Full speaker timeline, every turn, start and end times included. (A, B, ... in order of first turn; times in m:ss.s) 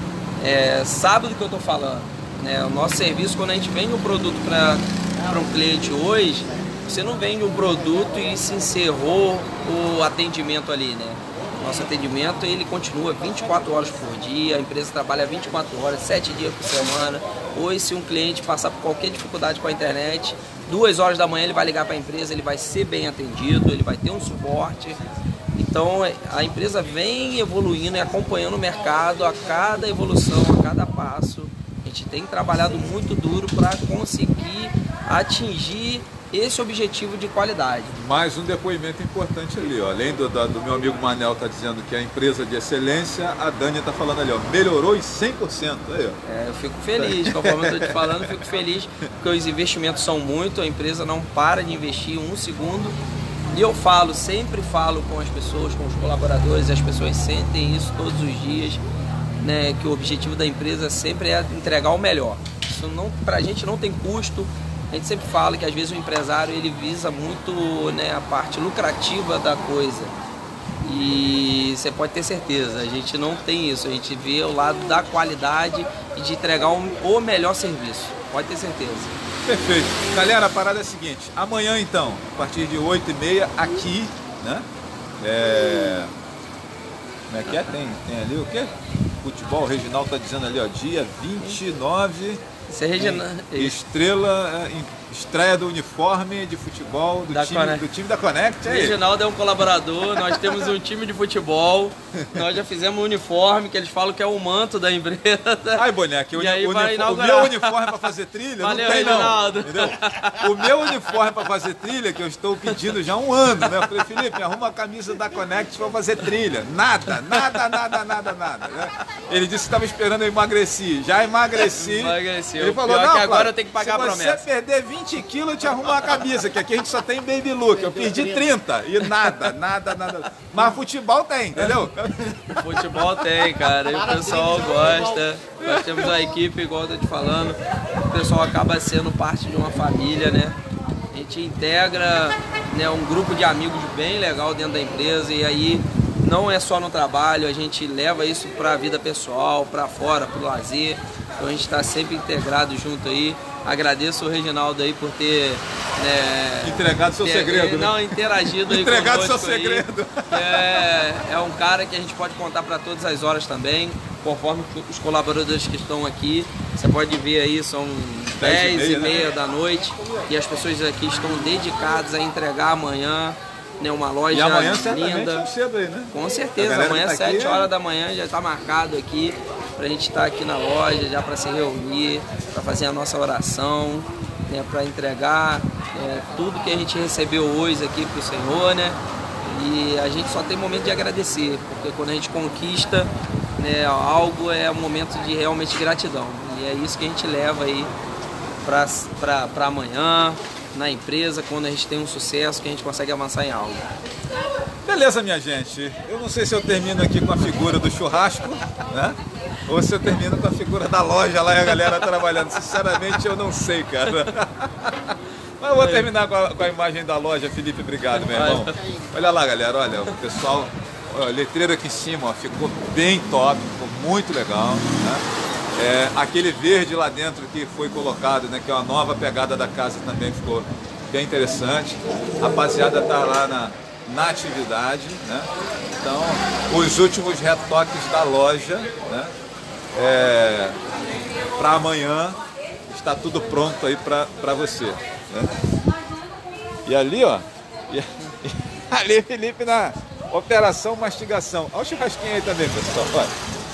0:00.4-0:25.0 A
0:25.5-0:38.0 A
0:37.9-0:46.2 B
0:46.2-0:53.0 A
0:47.0-0:48.4 B
0:53.5-0:58.8 A
0:59.4-1:10.2 A
1:10.8-1:19.2 A
1:19.4-1:24.7 B
1:25.2-1:26.1 B
1:27.3-1:32.4 B
1:32.7-1:33.8 A
1:33.0-1:39.0 B
1:37.3-1:37.8 A
1:38.6-1:48.1 A
1:40.3-1:40.6 B
1:42.1-1:42.5 B
1:45.7-2:13.3 B
1:48.6-1:50.9 A
1:53.6-1:54.2 A
1:57.3-1:57.8 A
2:01.5-2:04.4 A
2:09.1-2:09.5 A
2:12.5-2:20.6 A
2:15.6-2:16.2 B
2:21.1-2:55.5 A
2:36.6-2:40.7 B
2:48.4-2:49.3 B
2:54.3-2:57.7 B
2:56.1-3:17.9 A
3:18.6-3:23.9 A
3:24.8-3:59.3 B
3:35.8-3:36.1 A
3:38.2-3:38.8 A
3:59.9-4:00.8 B
4:01.6-4:05.6 B
4:06.8-4:13.3 B